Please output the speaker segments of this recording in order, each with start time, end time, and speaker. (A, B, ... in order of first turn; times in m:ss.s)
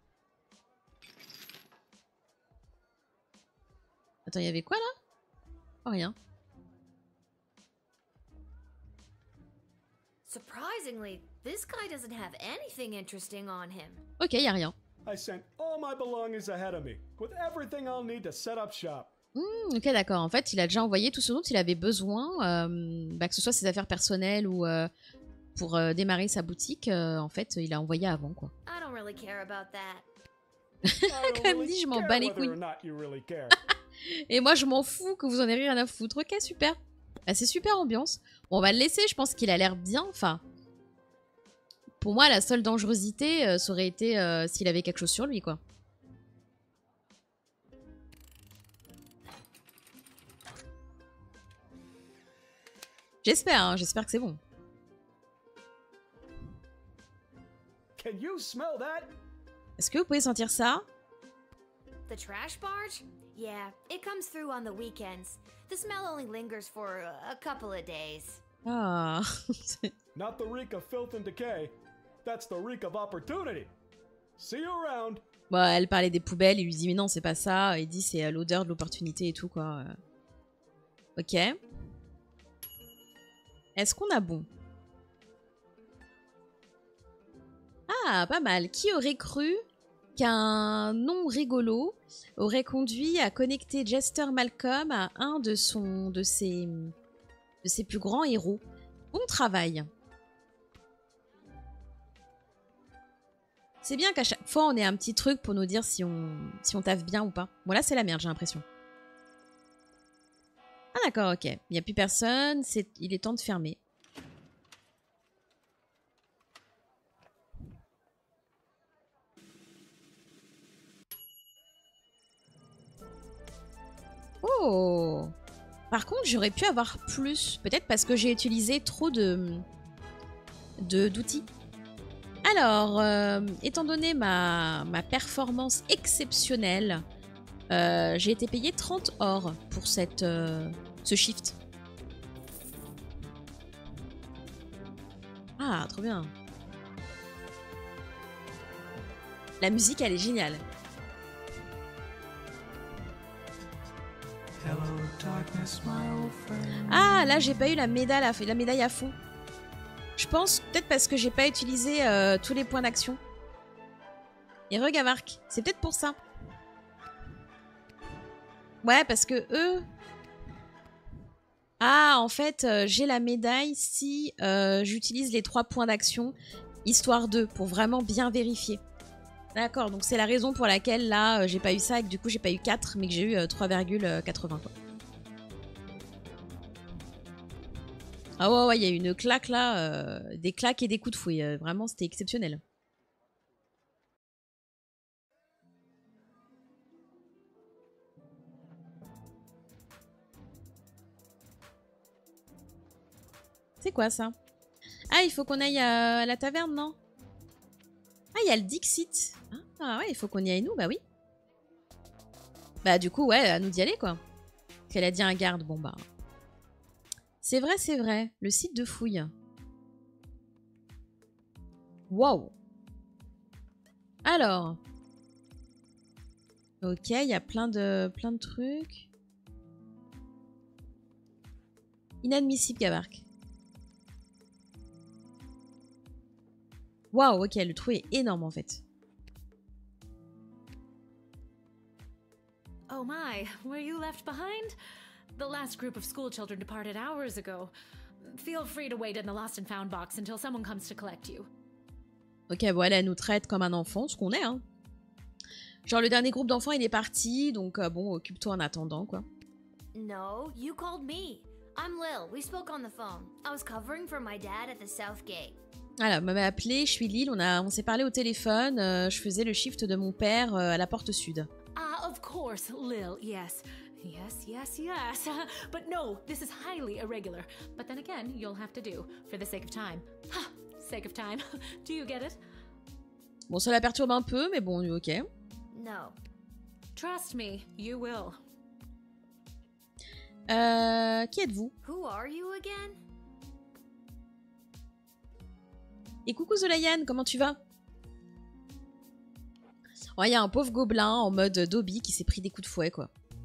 0:04.3-0:04.9 A
0:05.8-0:06.2 A
0:10.2-0:14.0 B
0:14.2-0:14.8 A
0:15.1-0:19.1 C
0:19.4-0:24.9 A
0:25.6-0:28.5 A
0:28.7-0:30.0 B
0:30.9-0:32.6 A
0:31.1-0:33.6 C
0:34.1-0:40.4 A
0:42.0-0:45.6 A
0:53.2-0:54.4 A
0:58.0-0:59.1 C
0:59.8-1:00.8 A
1:02.1-1:08.4 B
1:08.6-1:09.9 A
1:10.2-1:13.7 C
1:14.4-1:15.2 C
1:15.5-1:20.0 A
1:21.2-1:21.6 A
1:23.8-1:24.5 A
1:27.9-1:29.6 A
1:30.2-1:36.9 A
1:37.6-1:39.9 A
1:43.8-1:48.6 A
1:50.9-1:53.8 A
2:04.4-2:05.3 A
2:05.9-2:09.6 A
2:10.8-2:11.5 A
2:12.4-2:17.0 A
2:17.7-2:21.6 A
2:25.6-2:26.3 A
2:29.6-2:30.6 A
2:36.7-2:39.1 A
2:40.2-2:43.2 A
2:44.7-2:46.2 A
2:48.8-2:49.9 A
2:51.8-2:58.8 A
2:59.6-3:04.7 A
3:08.4-3:12.6 A
3:23.8-3:24.4 A
3:25.1-3:27.0 A
3:28.4-3:31.0 A
3:32.8-3:34.2 A
3:34.9-3:36.0 A
3:37.4-3:39.3 A
3:42.1-3:42.5 A
3:44.2-3:44.8 A
3:46.8-3:49.1 A
3:52.2-3:53.2 A
3:57.1-3:58.8 A
4:02.9-4:04.7 D
4:05.4-4:07.7 D
4:08.2-4:11.5 D
4:12.5-4:14.6 A
4:15.9-4:19.2 A
4:19.9-4:25.6 B
4:26.0-4:31.5 A
4:31.8-4:42.4 D
4:43.5-4:45.3 A
4:45.7-4:46.2 B
4:47.0-4:48.4 D
4:50.5-4:51.7 A
4:51.8-4:53.0 B
4:56.3-4:57.6 A
5:00.2-5:03.1 A